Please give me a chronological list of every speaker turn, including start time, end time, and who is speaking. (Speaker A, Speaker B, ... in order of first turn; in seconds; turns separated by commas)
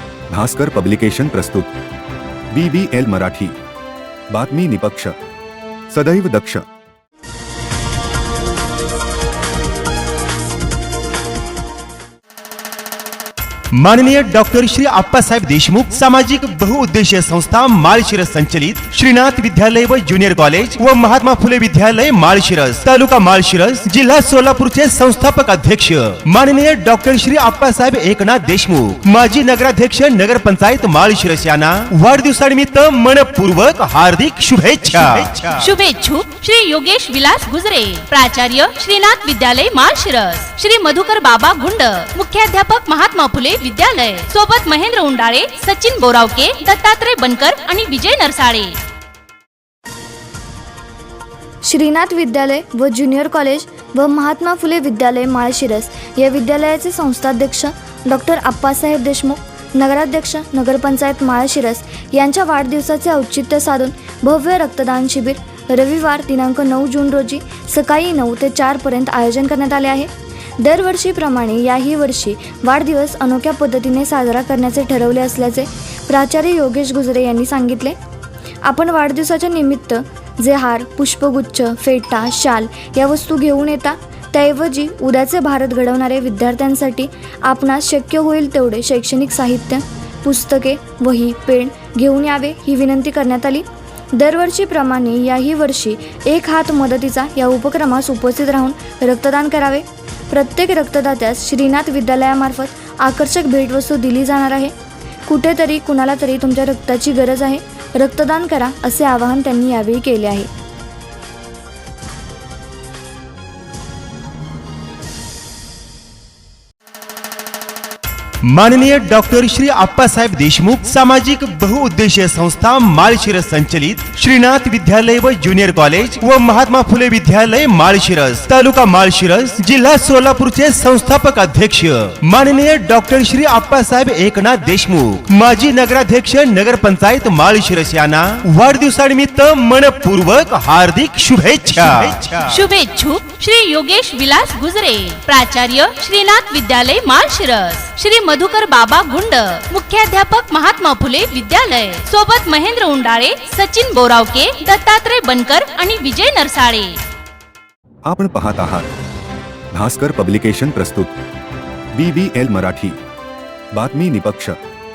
Speaker A: 0.3-1.7, Speaker A: 2.5-3.5, Speaker A: 4.3-5.1, Speaker A: 5.9-6.6, Speaker B: 13.7-35.6, Speaker C: 35.6-48.8, Speaker D: 51.6-78.0, Speaker D: 78.7-104.7, Speaker D: 105.3-110.5, Speaker B: 118.4-142.5, Speaker C: 142.5-157.0, Speaker A: 158.1-158.9, Speaker A: 159.7-161.2, Speaker A: 161.9-163.0, Speaker A: 163.7-164.6